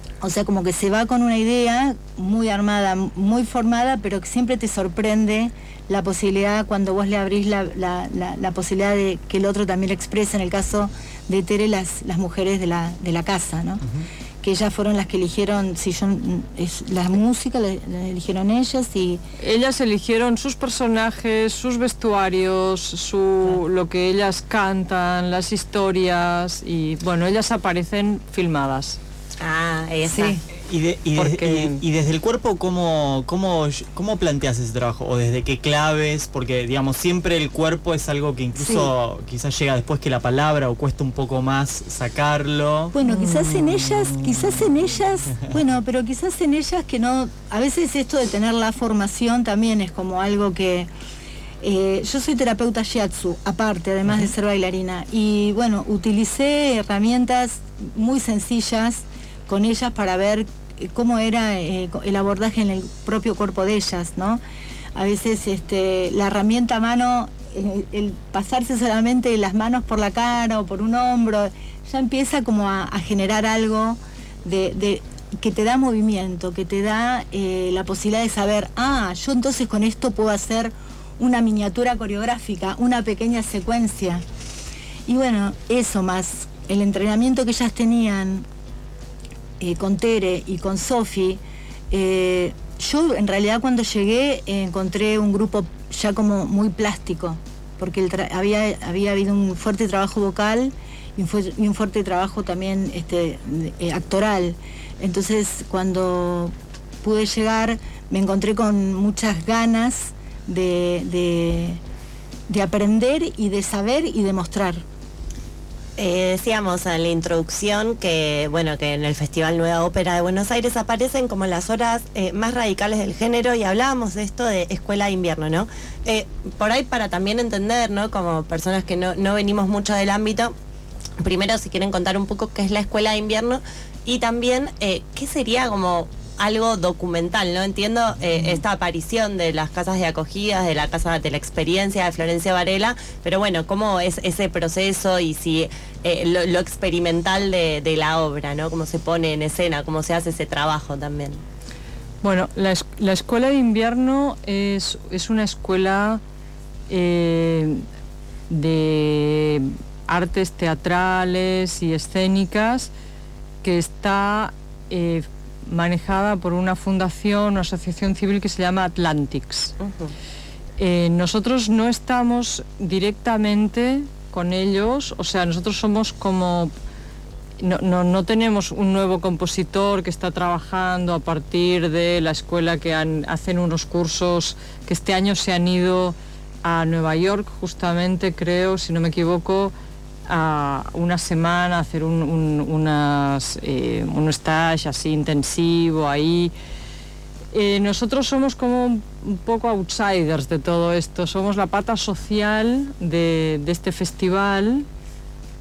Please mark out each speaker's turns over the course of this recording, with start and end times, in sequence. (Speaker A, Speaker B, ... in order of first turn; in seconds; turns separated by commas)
Speaker A: 0.2-13.8, Speaker A: 14.4-19.2, Speaker B: 19.4-29.0, Speaker C: 29.4-30.4, Speaker A: 30.1-30.4, Speaker D: 30.6-43.0, Speaker C: 31.2-31.8, Speaker A: 38.5-38.9, Speaker A: 42.9-50.9, Speaker B: 43.1-44.3, Speaker A: 51.6-64.4, Speaker A: 65.0-84.2, Speaker A: 85.1-88.5, Speaker A: 89.6-91.4, Speaker A: 91.9-111.8, Speaker A: 112.5-114.8, Speaker C: 116.0-130.5, Speaker C: 131.2-151.4, Speaker B: 152.2-156.2, Speaker B: 156.9-157.8, Speaker B: 158.5-162.9, Speaker B: 163.6-169.7, Speaker C: 169.8-170.1, Speaker B: 170.8-176.7, Speaker B: 177.6-189.7, Speaker B: 190.3-196.5, Speaker B: 197.5-204.9